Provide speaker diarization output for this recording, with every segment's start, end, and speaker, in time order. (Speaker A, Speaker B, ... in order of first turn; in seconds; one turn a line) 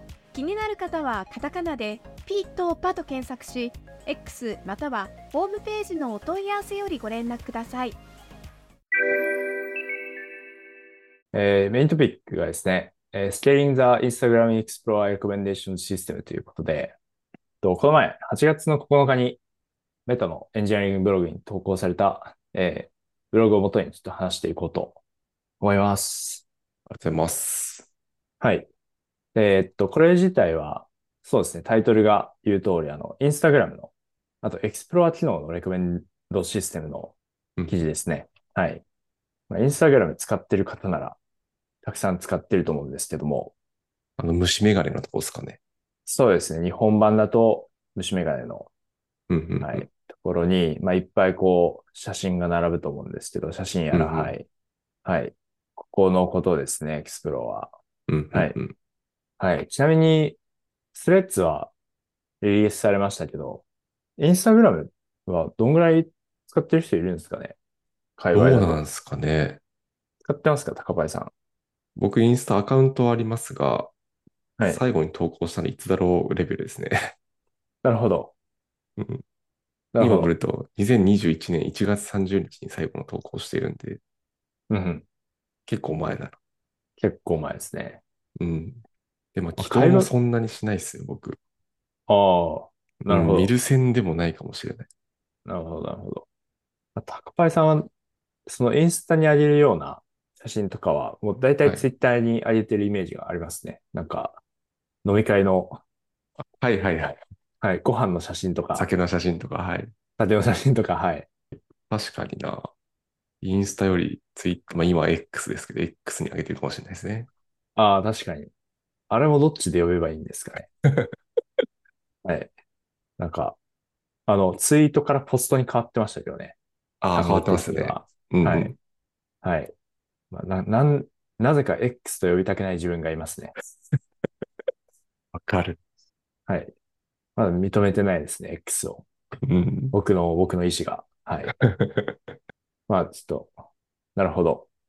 Speaker A: 0.3-8.0
Speaker B: 11.3-17.0
Speaker B: 17.6-19.4
Speaker B: 20.1-25.0
Speaker B: 25.6-26.4
Speaker C: 26.9-27.9
Speaker B: 28.4-28.7
Speaker B: 29.4-37.1
Speaker B: 37.7-38.8
Speaker B: 39.5-41.2
Speaker B: 41.8-43.5
Speaker C: 44.2-45.6
Speaker B: 46.1-48.7
Speaker C: 49.3-49.9
Speaker B: 49.6-54.5
Speaker C: 53.9-54.3
Speaker B: 55.0-57.7
Speaker C: 58.1-58.7
Speaker B: 58.3-58.6
Speaker B: 59.4-60.4
Speaker B: 60.9-61.7
Speaker B: 62.4-63.6
Speaker B: 64.2-67.6
Speaker B: 68.2-68.8
Speaker C: 68.3-69.6
Speaker B: 70.2-71.3
Speaker C: 72.0-73.9
Speaker C: 74.6-77.1
Speaker B: 77.8-78.3
Speaker C: 79.0-79.2
Speaker B: 79.9-80.3
Speaker C: 80.0-84.0
Speaker B: 84.7-85.0
Speaker C: 85.7-86.4
Speaker B: 87.0-88.0
Speaker C: 88.4-88.8
Speaker C: 89.3-91.4
Speaker B: 89.6-90.1
Speaker B: 92.1-93.5
Speaker C: 93.1-94.9
Speaker B: 95.5-96.2
Speaker B: 97.0-97.9
Speaker B: 98.5-104.4
Speaker B: 105.0-105.8
Speaker C: 106.4-107.2
Speaker B: 107.6-108.9
Speaker C: 108.8-109.9
Speaker B: 110.2-111.3
Speaker C: 111.9-112.7
Speaker C: 113.4-117.3
Speaker B: 117.8-118.5
Speaker B: 119.1-120.7
Speaker B: 122.2-122.5
Speaker B: 123.2-123.6
Speaker B: 124.3-126.6
Speaker C: 127.0-128.8
Speaker B: 127.1-128.7
Speaker B: 129.4-129.7
Speaker B: 130.3-133.6
Speaker C: 135.3-135.8
Speaker B: 136.5-136.7
Speaker B: 137.4-139.1
Speaker C: 139.4-139.9
Speaker B: 139.9-141.6
Speaker C: 141.5-142.2
Speaker B: 142.9-143.5
Speaker B: 144.2-144.7